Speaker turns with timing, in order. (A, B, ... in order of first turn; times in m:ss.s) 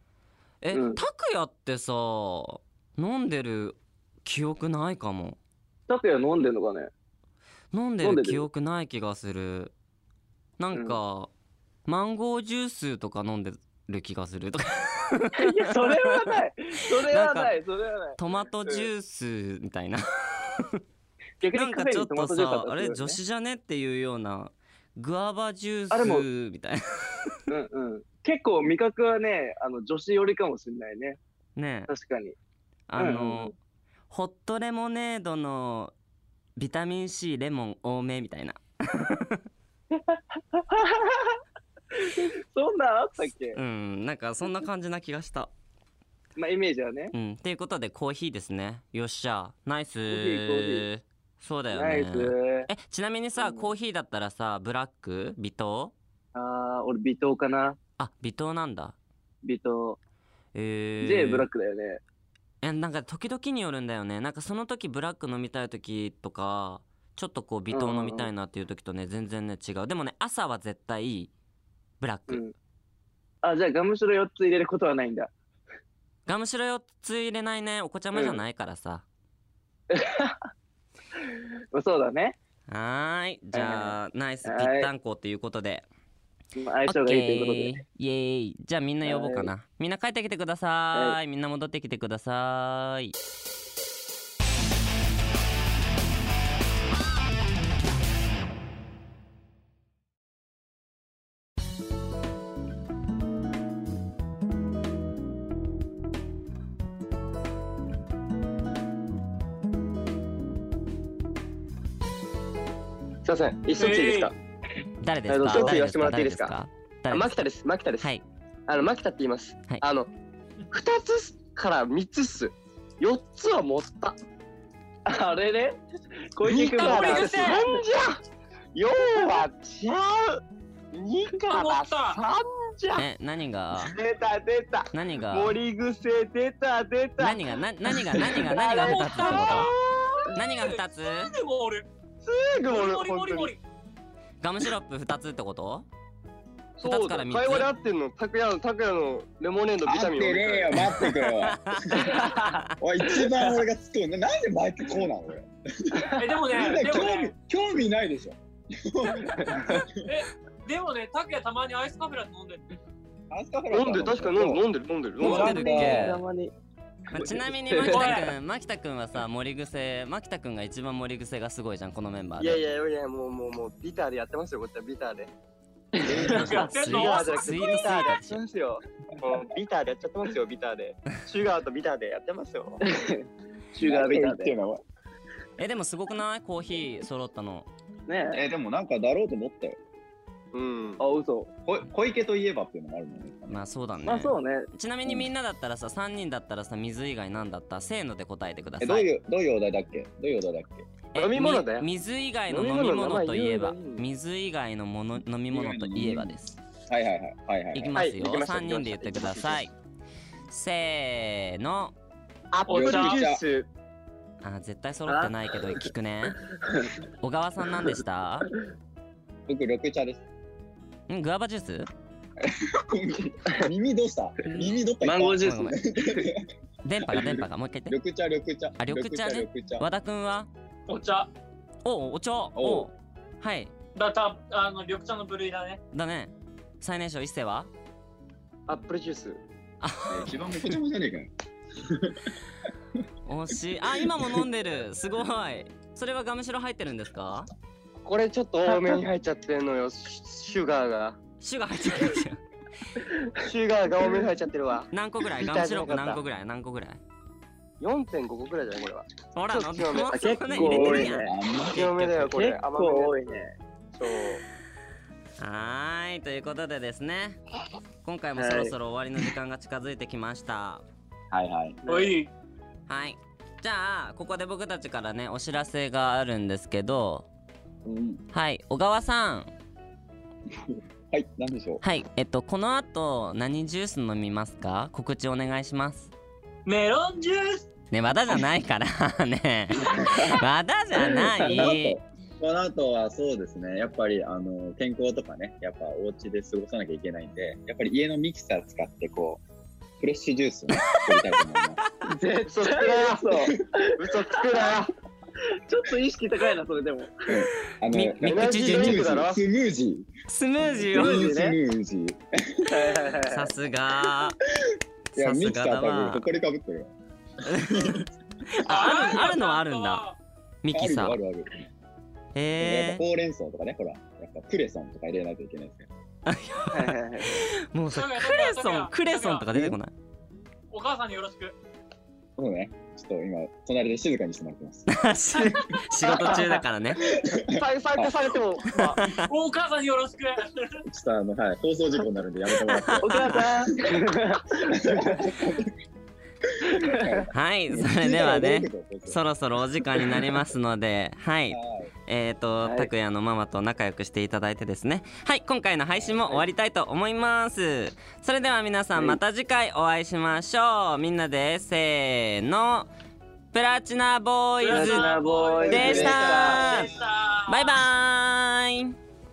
0:00.6-0:05.4 A
0:00.7-0:01.0 B
0:05.9-0:06.9 B
0:07.7-0:09.7 A
0:08.0-0:08.4 B
0:10.6-0:11.3 A
0:10.7-0:11.0 B
0:11.8-0:16.4 A
0:15.4-0:18.9 B
0:17.0-0:17.5 A
0:18.2-0:20.8 A
0:21.4-0:23.2 B
0:21.5-0:27.4 A
0:25.9-0:26.3 B
0:27.5-0:31.2 B
0:31.6-0:31.9 A
0:31.9-0:32.4 B
0:32.9-0:33.5 A
0:33.0-0:33.5 B
0:34.1-0:35.9 A
0:36.6-0:39.4 A
0:39.9-0:41.4 B
0:41.9-0:43.6 B
0:43.5-0:45.5 A
0:46.4-0:47.1 B
0:47.1-0:55.9 A
0:50.1-0:50.9 B
0:51.7-0:52.7 B
0:53.4-0:53.7 B
0:56.3-0:57.8 B
0:58.0-0:58.9 A
0:59.4-1:00.0 B
1:00.5-1:01.5 A
1:01.0-1:02.0 B
1:02.6-1:11.3 A
1:07.7-1:08.3 B
1:12.0-1:12.4 A
1:12.3-1:12.5 B
1:13.4-1:15.3 B
1:16.2-1:19.0 A
1:18.1-1:18.4 B
1:19.9-1:20.4 B
1:21.7-1:22.4 B
1:22.7-1:25.9 A
1:23.5-1:24.9 B
1:26.6-1:27.8 B
1:26.9-1:33.1 A
1:29.0-1:29.5 B
1:53.2-1:54.4 C
1:53.7-1:54.3 D
1:55.0-1:57.4 A
1:55.3-1:55.8 B
1:55.5-1:56.5 C
1:57.1-1:58.1 C
1:58.0-1:58.2 A
1:58.7-2:00.1 C
2:00.7-2:04.2 C
2:05.0-2:05.8 B
2:06.3-2:07.8 B
2:06.5-2:07.8 D
2:06.5-2:08.2 C
2:08.7-2:13.1 C
2:11.4-2:12.2 D
2:13.0-2:13.9 A
2:13.8-2:20.3 C
2:14.9-2:15.6 A
2:17.2-2:19.7 A
2:18.4-2:21.9 D
2:20.3-2:21.3 A
2:22.2-2:23.5 C
2:22.6-2:23.6 D
2:24.4-2:25.9 A
2:26.8-2:30.9 C
2:26.8-2:27.7 A
2:29.8-2:32.2 E
2:31.0-2:32.6 A
2:32.1-2:32.6 B
2:32.8-2:39.9 E
2:33.2-2:33.5 B
2:36.2-2:37.3 D
2:39.7-2:42.7 D
2:43.3-2:44.6 E
2:43.7-2:45.6 C
2:45.2-2:46.2 E
2:45.2-2:46.2 A
2:45.5-2:46.5 B
2:47.1-2:52.6 A
2:47.1-2:48.3 B
2:47.8-2:48.3 D
2:52.4-2:55.3 C
2:56.0-2:56.4 B
2:56.0-3:02.8 C
2:56.2-2:56.5 E
2:56.2-2:58.4 A
2:56.3-2:58.0 D
3:02.8-3:04.5 B
3:03.8-3:04.8 E
3:05.6-3:07.7 A
3:08.1-3:08.4 B
3:08.3-3:09.8 E
3:10.5-3:11.0 C
3:11.0-3:11.5 B
3:11.6-3:13.6 E
3:13.5-3:19.1 A
3:14.0-3:14.7 B
3:18.8-3:20.8 E
3:21.1-3:26.6 A
3:21.2-3:21.9 C
3:22.5-3:24.0 C
3:25.5-3:26.3 E
3:26.9-3:27.9 E
3:27.7-3:29.7 A
3:27.9-3:29.7 C
3:30.5-3:31.9 A
3:32.5-3:33.7 C
3:32.6-3:33.2 D
3:32.7-3:33.4 E
3:34.4-3:36.4 A
3:35.1-3:35.9 B
3:36.6-3:36.9 B
3:37.2-3:38.5 A
3:39.5-3:40.2 E
3:41.1-3:41.9 A
3:42.4-3:46.4 E
3:45.0-3:46.2 B
3:45.4-3:45.7 A
3:46.8-3:47.9 A
3:47.1-3:49.8 E
3:48.8-3:50.5 A
3:50.9-3:51.3 D
3:51.8-3:53.7 A
3:52.5-3:52.9 E
3:53.9-3:55.8 D
3:55.9-3:57.7 A
3:58.7-3:59.4 C
3:59.8-4:00.7 A
4:00.1-4:01.3 E
4:01.8-4:02.4 E
4:03.3-4:07.5 A
4:04.0-4:04.4 E
4:08.0-4:11.2 C
4:08.6-4:09.0 B
4:11.4-4:12.4 A
4:13.4-4:16.2 C
4:14.9-4:17.0 A
4:17.8-4:24.4 C
4:19.3-4:22.3 A
4:20.5-4:21.9 E
4:20.5-4:21.3 B
4:22.3-4:23.5 B
4:25.4-4:27.4 A
4:28.0-4:30.8 A
4:28.4-4:28.7 B
4:31.3-4:31.8 E
4:31.8-4:32.2 B
4:31.9-4:32.3 D
4:32.9-4:37.3 A
4:37.8-4:38.2 E
4:38.3-4:39.5 A
4:40.7-4:41.8 E
4:41.8-4:46.1 A
4:46.6-4:47.6 D
4:47.9-4:52.0 A
4:49.9-4:50.4 E
4:51.0-4:51.7 B
4:51.4-4:59.4 E
5:00.0-5:01.8 E
5:02.0-5:04.0 B
5:02.4-5:04.9 C
5:05.5-5:07.4 B
5:07.3-5:10.1 E
5:07.9-5:09.1 A
5:08.2-5:09.4 C
5:10.3-5:11.2 A
5:10.6-5:13.0 E
5:10.9-5:11.6 B
5:12.6-5:13.5 B
5:13.2-5:14.4 A
5:14.7-5:16.9 E
5:15.1-5:16.2 A
5:17.5-5:18.0 A
5:17.7-5:18.0 E
5:18.6-5:20.0 A
5:18.6-5:19.0 E
5:18.6-5:20.2 D
5:20.6-5:21.2 A
5:20.7-5:21.6 E
5:22.3-5:23.0 A
5:22.6-5:25.9 E
5:26.3-5:29.9 A
5:26.7-5:27.5 B
5:27.9-5:29.5 D
5:30.7-5:31.6 D
5:32.4-5:34.9 E
5:34.9-5:37.0 A
5:35.4-5:35.7 D
5:37.0-5:38.2 E
5:37.5-5:39.0 C
5:39.0-5:39.3 A
5:39.2-5:40.8 D
5:40.8-5:43.6 E
5:42.7-5:43.3 A
5:43.0-5:44.8 B
5:44.7-5:45.7 E
5:46.8-5:47.3 B
5:46.8-5:49.2 E
5:47.3-6:02.9 A
5:51.5-5:51.9 E
5:52.6-5:52.9 B
6:03.5-6:05.1 A
6:04.6-6:07.8 D
6:04.7-6:06.7 B
6:05.6-6:07.0 E
6:05.6-6:06.9 A
6:07.5-6:08.9 A